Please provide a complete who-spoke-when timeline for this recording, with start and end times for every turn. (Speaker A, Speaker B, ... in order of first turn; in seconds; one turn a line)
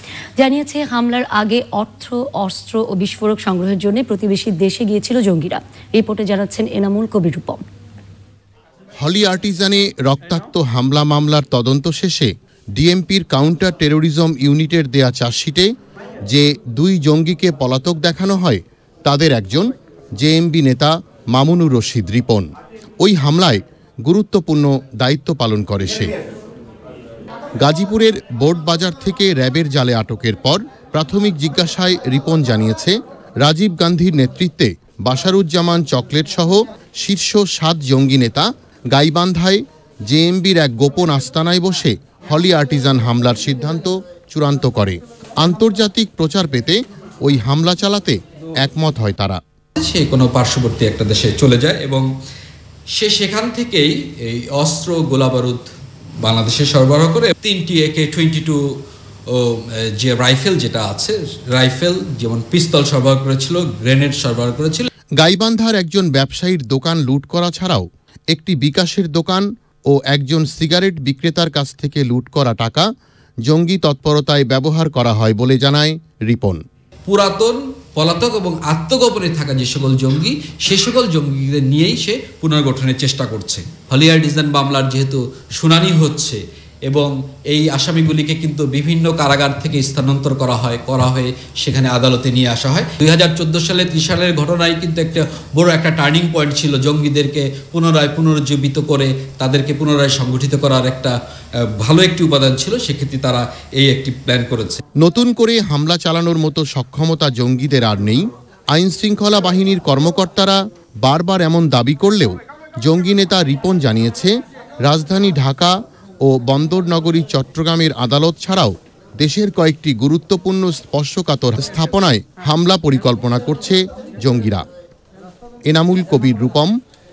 Speaker A: 0.4-7.6
Speaker B: 9.0-15.7
Speaker B: 16.3-22.5
Speaker B: 23.0-26.1
Speaker B: 27.6-49.4
Speaker C: 49.8-52.1
Speaker C: 53.0-55.7
Speaker C: 56.2-58.7
Speaker C: 59.3-64.9
Speaker B: 65.2-72.9
Speaker B: 73.5-76.6
Speaker C: 77.1-101.1
Speaker C: 101.8-104.8
Speaker B: 105.0-114.3
Speaker B: 114.8-124.6
Speaker B: 125.7-126.7